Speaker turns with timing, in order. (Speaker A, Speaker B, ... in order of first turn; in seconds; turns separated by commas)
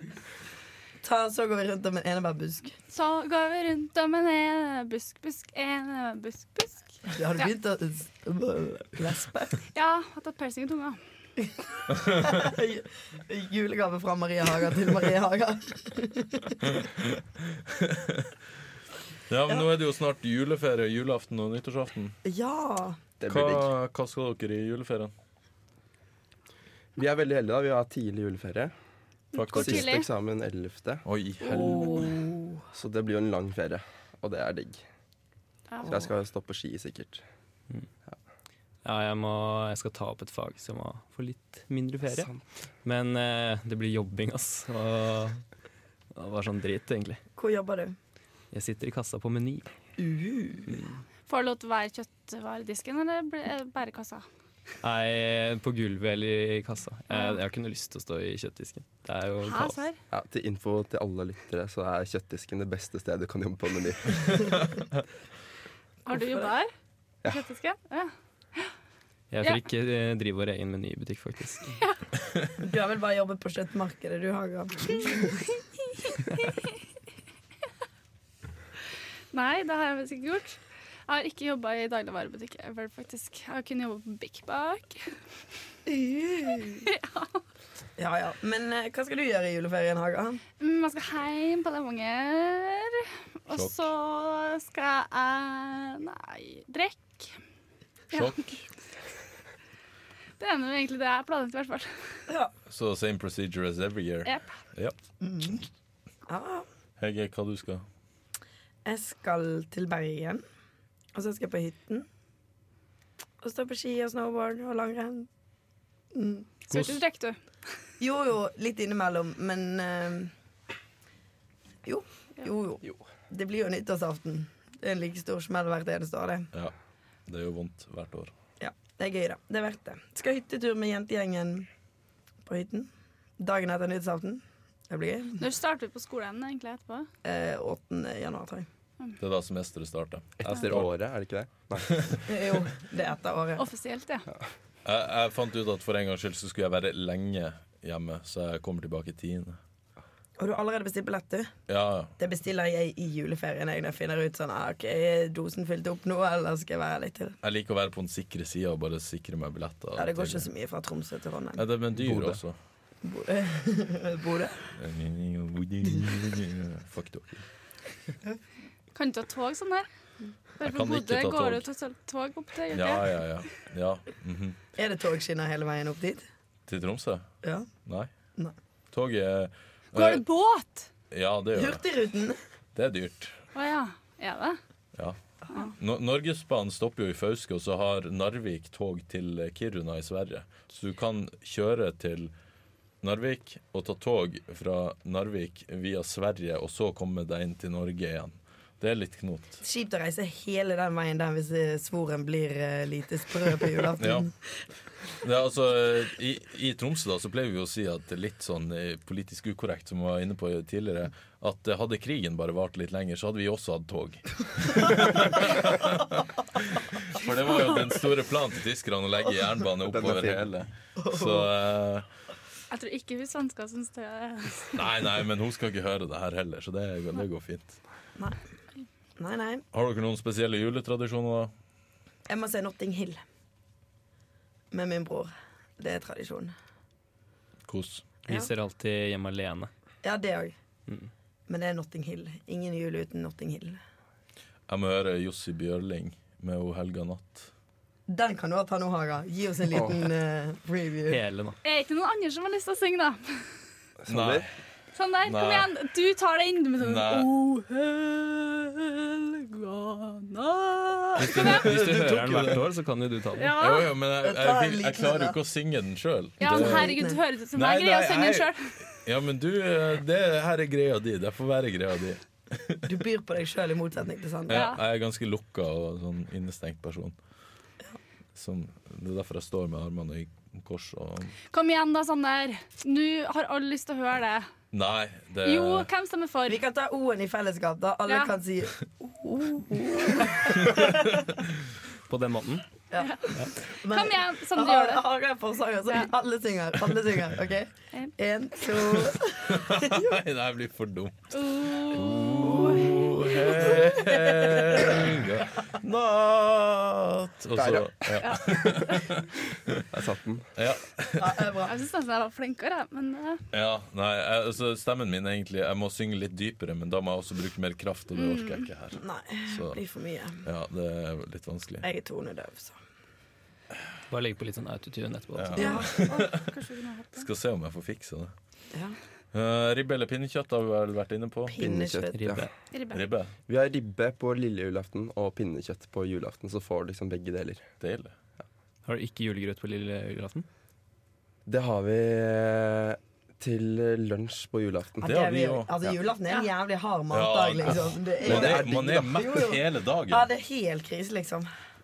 Speaker A: 1.0-2.8, Speaker B: 2.9-7.5, Speaker A: 7.1-9.6, Speaker B: 9.7-11.0, Speaker C: 11.9-12.4, Speaker A: 12.1-16.7, Speaker C: 17.5-18.3, Speaker C: 19.3-22.2, Speaker A: 22.2-23.0, Speaker D: 23.2-23.7, Speaker C: 23.3-25.1, Speaker D: 27.0-28.7, Speaker B: 29.3-30.1, Speaker C: 29.4-30.0, Speaker D: 29.5-31.0, Speaker C: 31.1-32.1, Speaker A: 31.4-32.6, Speaker B: 31.5-32.1, Speaker D: 32.7-34.8, Speaker D: 35.9-37.2, Speaker E: 38.8-45.4, Speaker D: 42.1-42.4, Speaker E: 46.1-47.2, Speaker A: 47.4-48.0, Speaker E: 48.5-49.7, Speaker A: 50.0-50.8, Speaker E: 50.7-51.0, Speaker B: 51.3-54.2, Speaker E: 54.8-59.8, Speaker B: 57.1-57.4, Speaker B: 59.4-60.0, Speaker D: 60.1-64.5, Speaker B: 66.1-66.7, Speaker A: 66.1-66.5, Speaker B: 67.2-68.7, Speaker E: 69.3-71.8, Speaker A: 72.6-75.4, Speaker B: 76.1-76.7, Speaker B: 79.3-85.2, Speaker A: 85.9-86.9, Speaker B: 86.9-87.4, Speaker A: 88.0-90.4, Speaker B: 90.6-97.4, Speaker B: 98.1-98.4, Speaker C: 98.1-98.7, Speaker B: 100.4-102.1, Speaker C: 102.7-105.0, Speaker B: 104.2-104.5, Speaker A: 105.2-105.6, Speaker A: 106.3-106.7, Speaker C: 107.0-107.8, Speaker A: 108.8-110.4, Speaker A: 111.1-112.1, Speaker A: 113.4-115.3, Speaker A: 116.1-116.5, Speaker B: 116.7-117.4, Speaker A: 118.0-120.3, Speaker A: 121.8-126.5, Speaker C: 127.3-128.3, Speaker A: 128.6-131.7, Speaker A: 132.5-135.4, Speaker B: 135.4-137.1, Speaker A: 137.2-138.7, Speaker C: 139.2-140.9, Speaker D: 140.4-142.2, Speaker C: 141.9-142.2, Speaker A: 142.3-143.7, Speaker B: 143.6-144.3, Speaker C: 144.8-149.6, Speaker A: 150.4-151.5, Speaker C: 151.7-152.1, Speaker A: 152.2-157.4, Speaker C: 157.4-160.5, Speaker A: 160.0-161.7, Speaker C: 161.6-162.6, Speaker A: 163.0-164.7, Speaker C: 164.7-167.4, Speaker B: 168.9-169.9, Speaker B: 170.6-173.2, Speaker C: 170.6-171.6, Speaker C: 172.7-174.6, Speaker A: 174.8-176.3, Speaker C: 176.7-177.3, Speaker A: 177.4-177.7, Speaker C: 177.8-178.1, Speaker C: 178.9-180.2, Speaker B: 179.9-180.9, Speaker C: 181.1-181.8, Speaker A: 181.5-182.4, Speaker C: 182.8-183.4, Speaker B: 183.6-184.6, Speaker C: 185.7-192.3, Speaker C: 193.0-199.6, Speaker A: 199.6-204.3, Speaker C: 204.0-204.3, Speaker C: 205.2-222.1, Speaker D: 219.8-220.5, Speaker A: 221.0-221.5, Speaker B: 222.7-224.9, Speaker C: 224.7-227.8, Speaker A: 229.2-229.6, Speaker C: 229.7-231.5, Speaker A: 232.3-233.2, Speaker A: 234.7-236.5, Speaker C: 237.7-238.1, Speaker E: 238.3-239.7, Speaker A: 240.0-240.6, Speaker A: 241.5-243.8, Speaker C: 244.7-247.5, Speaker A: 248.1-251.2, Speaker D: 249.7-250.1, Speaker E: 251.1-251.6, Speaker B: 251.6-253.5, Speaker D: 254.0-254.5, Speaker C: 254.1-254.5, Speaker B: 254.9-261.8, Speaker C: 255.2-255.7, Speaker C: 256.8-257.3, Speaker E: 261.2-263.6, Speaker C: 261.2-262.8, Speaker B: 263.4-263.9, Speaker C: 263.6-267.0, Speaker A: 264.2-265.4, Speaker B: 266.4-268.8, Speaker A: 266.5-267.2, Speaker C: 267.5-272.9, Speaker A: 272.9-274.7, Speaker C: 274.5-277.2, Speaker B: 274.5-274.8, Speaker C: 278.4-281.4, Speaker B: 281.5-284.5, Speaker C: 284.7-285.9, Speaker B: 285.4-286.6, Speaker A: 286.5-291.2, Speaker E: 292.1-292.6, Speaker A: 292.9-300.1, Speaker B: 293.0-295.0, Speaker C: 299.0-309.8, Speaker B: 301.3-304.0, Speaker A: 304.8-305.1, Speaker D: 307.5-308.4, Speaker B: 308.2-309.1, Speaker D: 309.7-310.5, Speaker C: 310.6-311.5, Speaker A: 311.2-311.8, Speaker B: 311.6-313.4, Speaker C: 313.5-319.8, Speaker B: 318.1-318.7, Speaker A: 319.0-320.4, Speaker C: 320.4-321.9, Speaker A: 321.8-322.8, Speaker E: 324.1-325.8, Speaker C: 325.4-326.5, Speaker A: 325.6-326.1, Speaker B: 325.6-327.3, Speaker C: 327.2-328.3, Speaker C: 329.3-331.6, Speaker A: 331.5-332.2, Speaker D: 331.6-332.5, Speaker E: 332.1-332.5, Speaker B: 332.7-333.0, Speaker C: 332.9-333.3, Speaker D: 333.5-337.6, Speaker C: 337.8-338.1, Speaker E: 338.9-340.5, Speaker D: 341.5-345.1, Speaker A: 345.0-351.5, Speaker C: 345.0-345.7, Speaker C: 347.1-350.3, Speaker D: 348.2-349.3